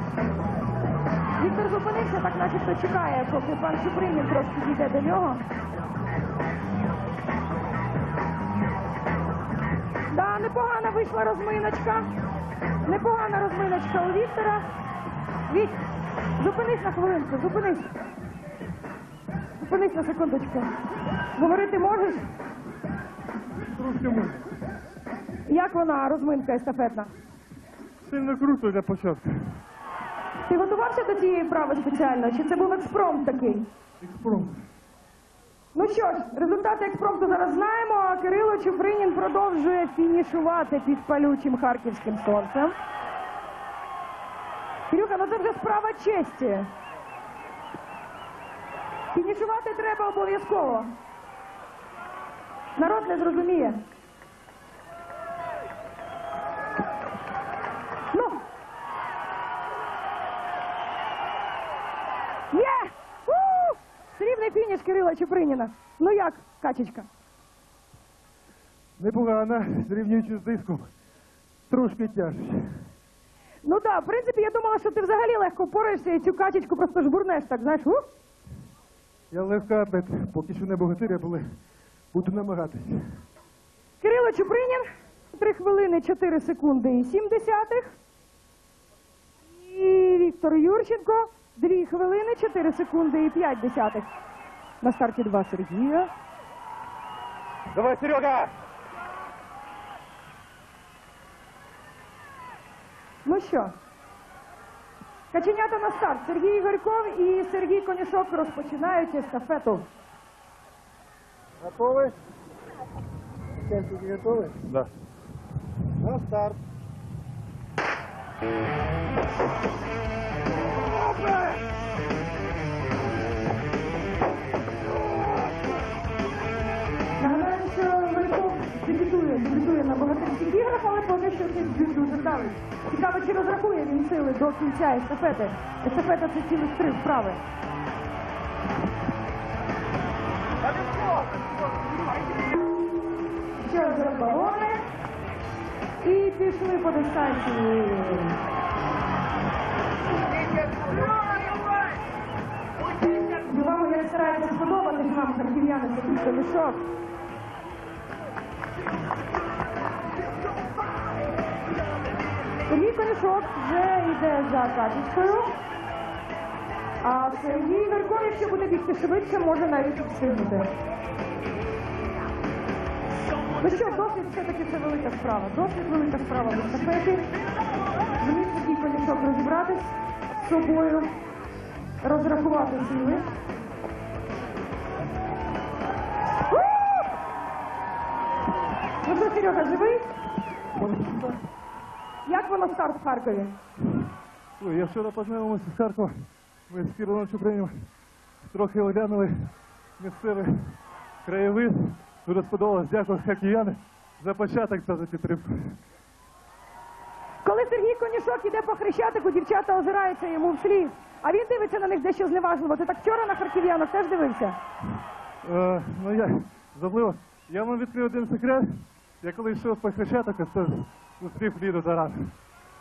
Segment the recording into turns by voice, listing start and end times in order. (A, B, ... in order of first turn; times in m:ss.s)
0:01.4-0:05.4 A
0:10.1-0:12.1 A
0:12.8-0:14.6 A
0:15.5-0:15.8 A
0:16.4-0:17.9 A
0:19.6-0:20.7 A
0:21.4-0:22.2 A
0:23.7-0:24.5 B
0:25.5-0:27.1 A
0:28.0-0:29.6 B
0:30.5-0:33.6 A
0:34.0-0:34.6 B
0:35.7-0:42.8 A
0:44.9-0:46.7 A
0:49.1-0:50.9 A
0:52.8-0:53.8 A
0:58.1-0:58.4 A
1:02.5-1:07.1 A
1:09.0-1:10.9 B
1:11.7-1:12.7 B
1:13.6-1:18.0 A
1:19.3-1:21.5 B
1:22.1-1:23.0 B
1:24.0-1:27.9 A
1:29.6-1:34.1 A
1:34.8-1:36.1 A
1:37.8-1:38.5 B
1:43.2-1:43.7 A
1:45.3-1:49.8 A
1:51.8-1:52.1 B
1:54.1-1:54.9 B
2:07.2-2:17.4 A
2:23.6-2:24.8 A
2:26.0-2:28.4 A
2:33.3-2:36.8 A
2:42.7-2:45.6 A
2:47.0-2:50.7 A
2:53.6-2:57.3 A
2:58.2-3:01.1 A
3:02.0-3:03.2 A
3:09.0-3:10.1 A
3:10.8-3:11.4 B
3:12.2-3:13.5 A
3:14.6-3:17.8 B
3:18.4-3:25.8 B
3:27.4-3:34.6 A
3:35.4-3:42.3 B